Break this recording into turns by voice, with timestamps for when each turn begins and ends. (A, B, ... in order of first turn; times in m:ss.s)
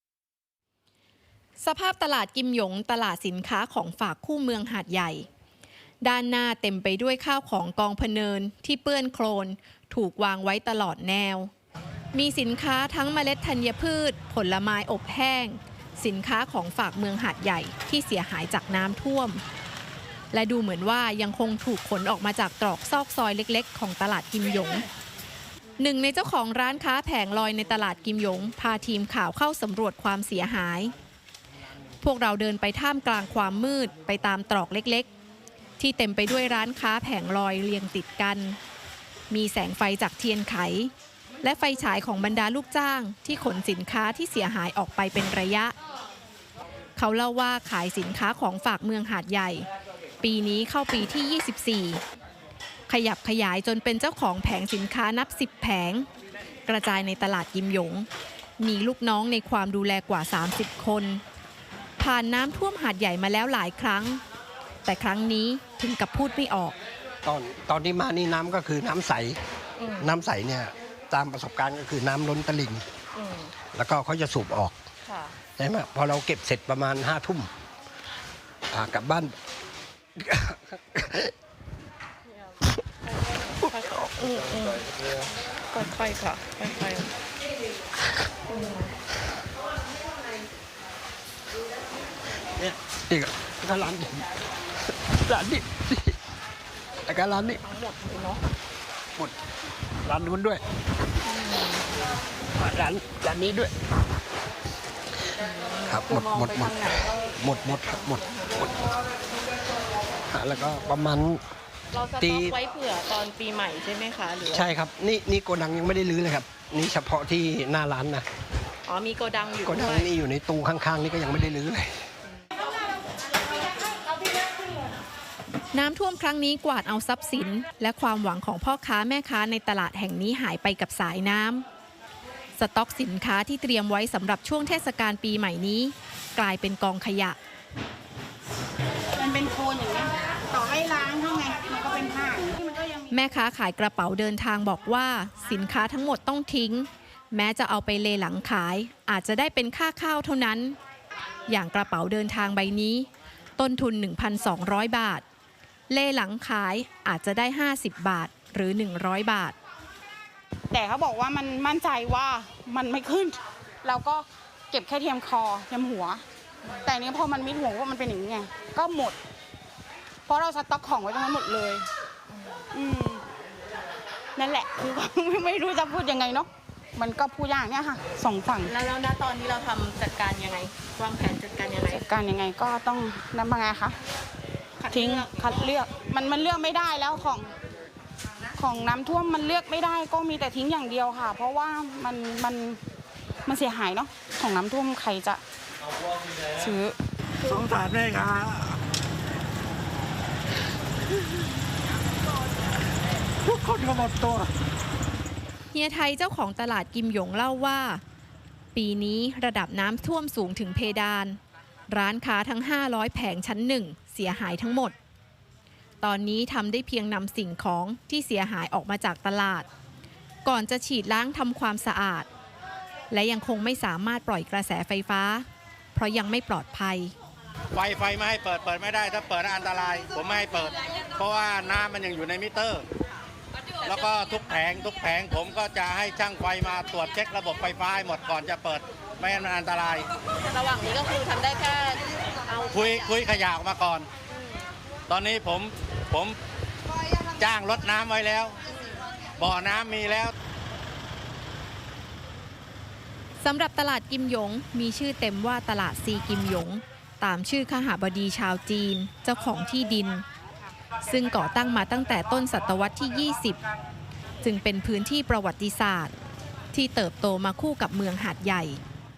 0:01.6-0:05.3 A
0:06.0-0:11.5 A
0:12.1-0:19.4 A
0:20.3-0:24.9 A
0:25.8-0:30.9 A
0:32.0-0:35.1 A
0:35.8-0:38.6 A
0:39.3-0:45.7 A
0:47.0-0:49.7 A
0:50.2-0:52.0 A
0:52.9-0:56.1 A
0:56.7-0:58.1 A
0:58.6-1:01.2 A
1:02.0-1:04.2 A
1:04.8-1:06.8 A
1:07.2-1:09.4 B
1:09.8-1:10.1 C
1:10.0-1:12.8 B
1:13.2-1:13.5 C
1:13.7-1:14.8 B
1:15.0-1:15.3 C
1:15.6-1:17.5 B
1:18.7-1:19.4 B
1:20.2-1:21.3 B
1:23.5-1:24.8 C
1:25.7-1:27.1 C
1:28.5-1:28.9 C
1:32.6-1:34.2 B
1:35.0-1:36.2 B
1:37.1-1:37.6 B
1:37.7-1:38.3 C
1:40.0-1:40.6 B
1:41.4-1:41.6 C
1:42.6-1:43.7 B
1:45.4-1:47.1 C
1:45.9-1:48.7 B
1:50.3-1:51.4 B
1:51.9-1:54.7 C
1:52.2-1:52.6 B
1:54.5-1:58.2 B
1:58.8-2:00.1 C
1:59.6-2:02.0 B
2:05.7-2:11.6 A
2:12.6-2:17.4 A
2:19.2-2:23.1 D
2:23.1-2:30.8 A
2:31.5-2:33.1 A
2:33.6-2:35.2 A
2:35.9-2:39.6 A
2:40.7-2:46.2 D
2:46.8-2:49.2 D
2:50.3-2:51.9 D
2:52.7-2:53.2 D
2:54.4-2:58.7 D
2:58.7-3:02.0 C
3:00.9-3:01.3 A
3:01.9-3:04.0 D
3:04.8-3:05.5 C
3:04.9-3:07.5 D
3:08.6-3:12.8 D
3:13.5-3:15.4 D
3:16.6-3:17.0 D
3:17.4-3:18.6 E
3:23.5-3:24.4 E
3:25.7-3:28.0 A
3:28.7-3:35.0 A
3:36.0-3:39.7 A
3:40.4-3:42.3 A
3:43.1-3:47.1 A
3:47.7-3:52.8 E
3:53.8-4:00.1 E
4:00.4-4:02.9 C
4:02.7-4:04.1 E
4:04.3-4:04.6 C
4:05.1-4:06.4 E
4:07.4-4:08.6 E
4:09.4-4:10.3 E
4:13.4-4:20.2 A
4:21.0-4:23.6 A
4:24.4-4:26.1 A
4:26.7-4:28.8 A